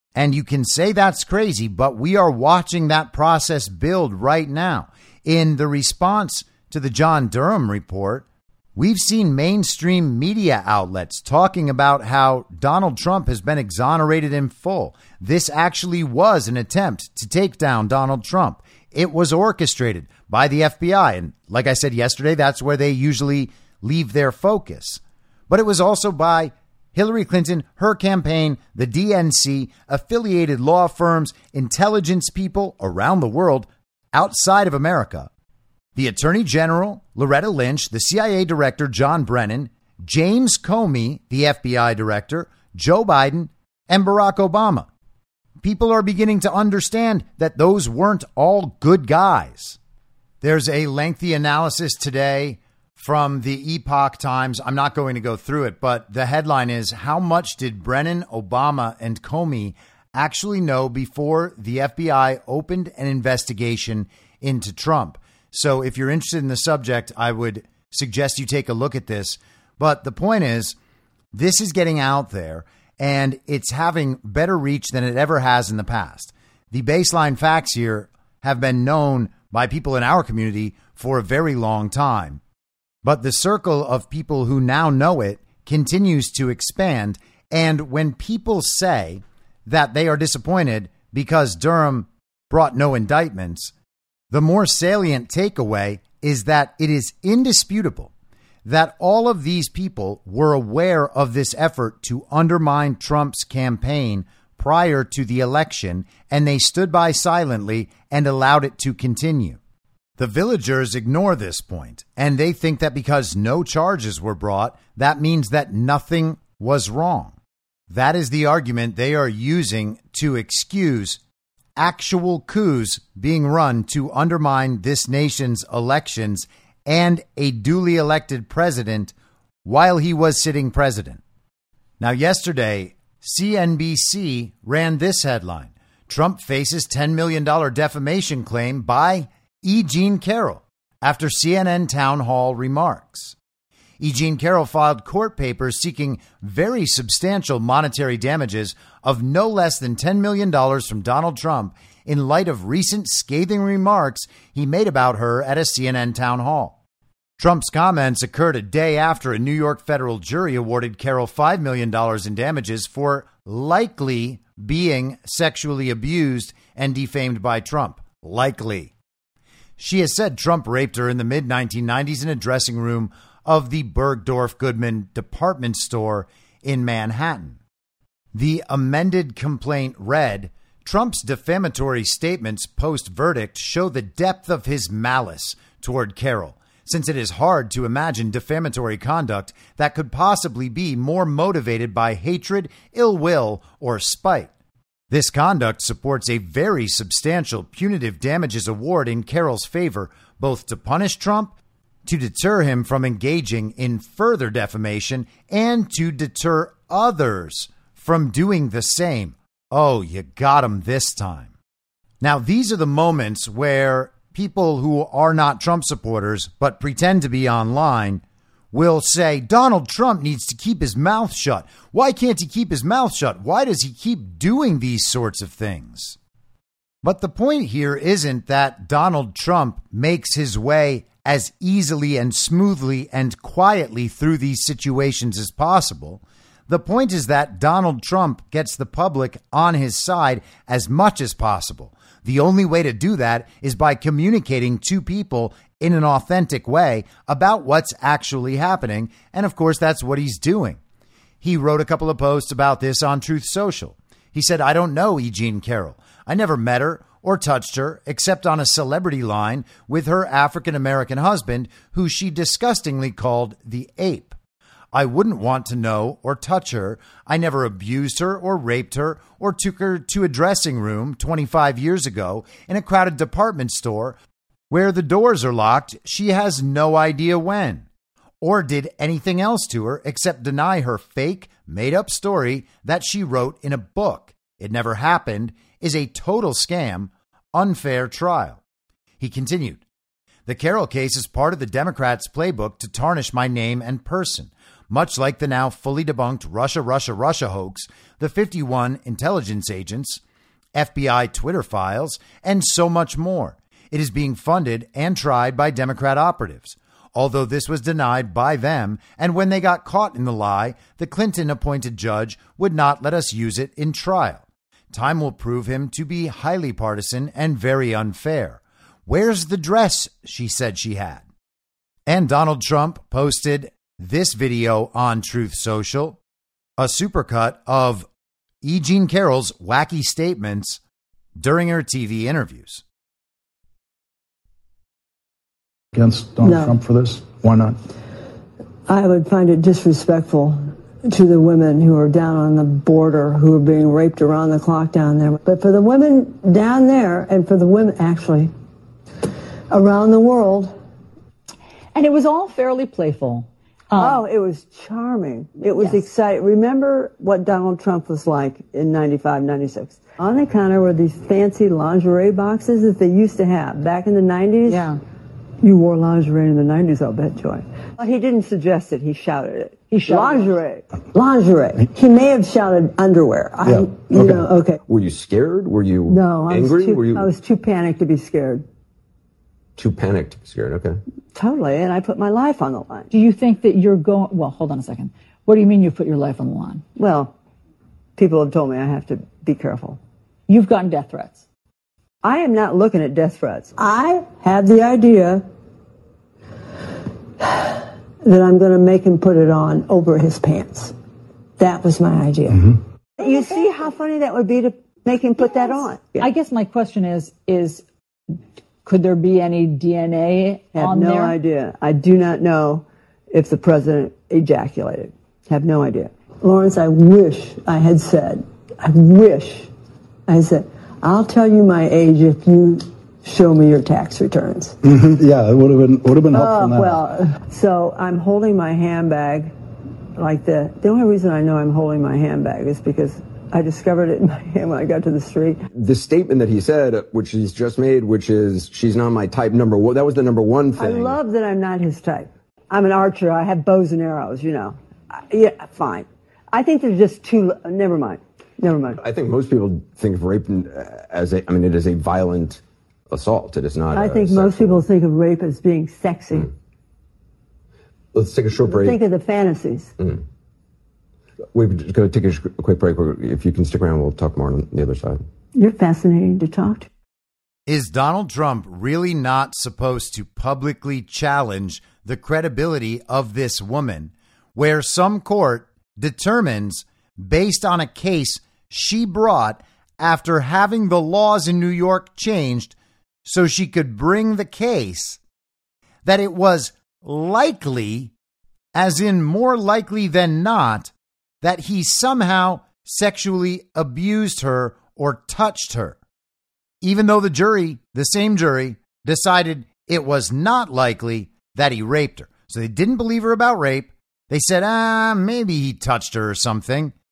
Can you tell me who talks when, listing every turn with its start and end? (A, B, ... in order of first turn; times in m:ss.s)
0:00.2-0:35.3 A
0:36.0-0:44.9 A
0:45.6-0:49.8 A
0:50.4-1:10.8 A
1:11.3-1:22.4 A
1:23.0-1:33.7 A
1:34.3-1:38.1 A
1:38.6-1:49.6 A
1:50.2-1:57.4 A
1:57.9-2:01.2 A
2:01.8-2:09.1 A
2:09.6-2:11.2 A
2:12.0-2:23.4 A
2:24.0-2:36.8 A
2:37.4-2:48.9 A
2:49.8-2:57.6 A
2:58.3-3:14.5 A
3:15.1-3:21.5 A
3:22.0-3:31.5 A
3:32.2-3:38.2 A
3:38.7-3:46.2 A
3:47.0-4:10.8 A
4:11.4-4:24.4 A
4:24.9-4:34.2 A
4:34.7-4:37.9 A
4:38.4-4:48.6 A
4:49.2-4:49.8 A
4:50.5-5:00.2 A
5:00.8-5:21.2 A
5:22.1-5:26.2 A
5:26.8-5:28.1 A
5:28.6-5:30.8 A
5:31.4-5:32.8 A
5:35.9-5:37.8 B
5:36.4-5:36.8 C
5:38.9-5:48.5 C
5:49.7-5:50.8 C
5:52.0-5:54.2 D
5:54.0-6:04.9 C
5:55.8-5:56.0 D
6:05.6-6:14.8 C
6:13.7-6:14.4 B
6:14.9-6:17.3 E
6:16.1-6:18.7 C
6:19.8-6:21.0 E
6:21.4-6:23.1 C
6:23.1-6:26.8 D
6:27.0-6:27.3 C
6:28.2-6:30.0 C
6:30.5-6:31.4 D
6:32.2-6:35.4 C
6:37.4-6:41.0 C
6:41.6-6:46.3 C
6:46.2-6:47.8 D
6:48.8-6:51.4 D
6:50.7-6:59.7 C
7:00.3-7:04.8 C
7:04.9-7:07.0 B
7:06.3-7:09.5 C
7:10.2-7:15.6 C
7:15.7-7:21.2 E
7:20.8-7:29.0 C
7:29.0-7:34.8 E
7:33.9-7:36.5 C
7:38.2-7:39.0 E
7:38.6-7:39.9 C
7:40.0-7:40.2 E
7:41.5-7:45.2 E
7:45.6-7:46.9 C
7:47.7-8:05.2 A
8:06.0-8:08.1 A
8:08.8-8:16.0 A
8:16.8-8:26.9 A